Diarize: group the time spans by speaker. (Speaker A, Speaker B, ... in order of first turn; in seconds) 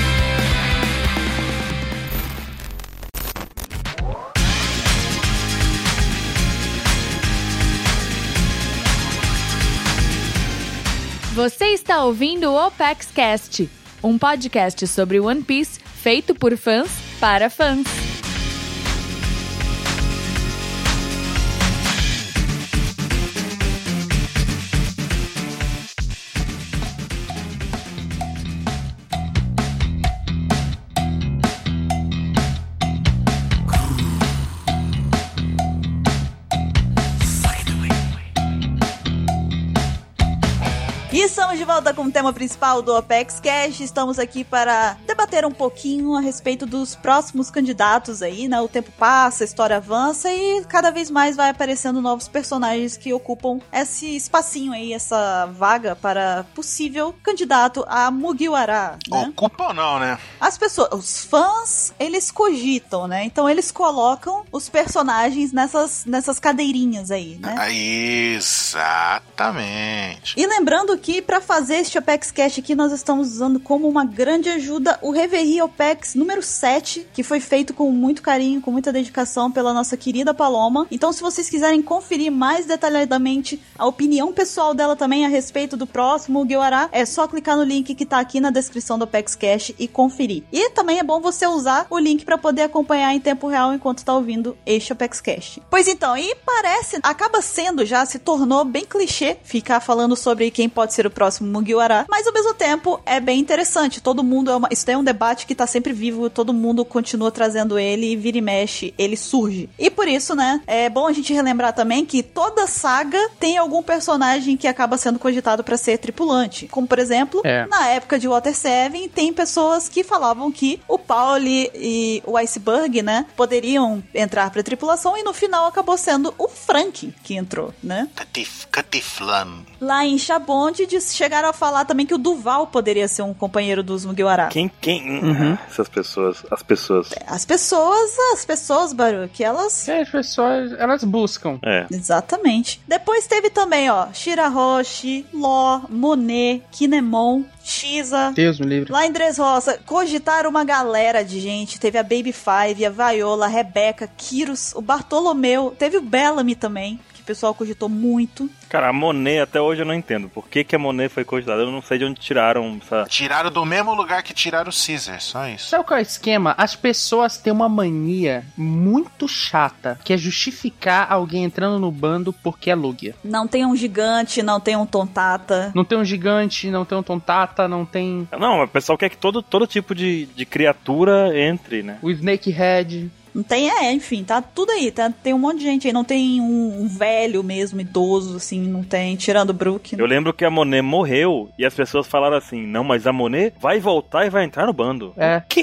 Speaker A: 11.3-18.1
Speaker B: 41.1-59.3, 60.4-67.6, 70.3-128.1, 129.8-134.6, 137.1-139.9, 141.9-158.5, 173.2-175.8, 183.3-190.1
Speaker C: 59.1-60.2, 67.4-70.3, 128.2-129.7, 163.1-165.8
Speaker D: 117.4-117.7, 135.2-135.6, 139.8-141.6, 148.3-148.9, 165.7-173.1, 175.7-178.3, 182.0-183.1, 195.2-195.4
Speaker E: 134.5-137.2, 141.6-141.9, 158.7-163.1, 178.3-182.0, 190.0-195.3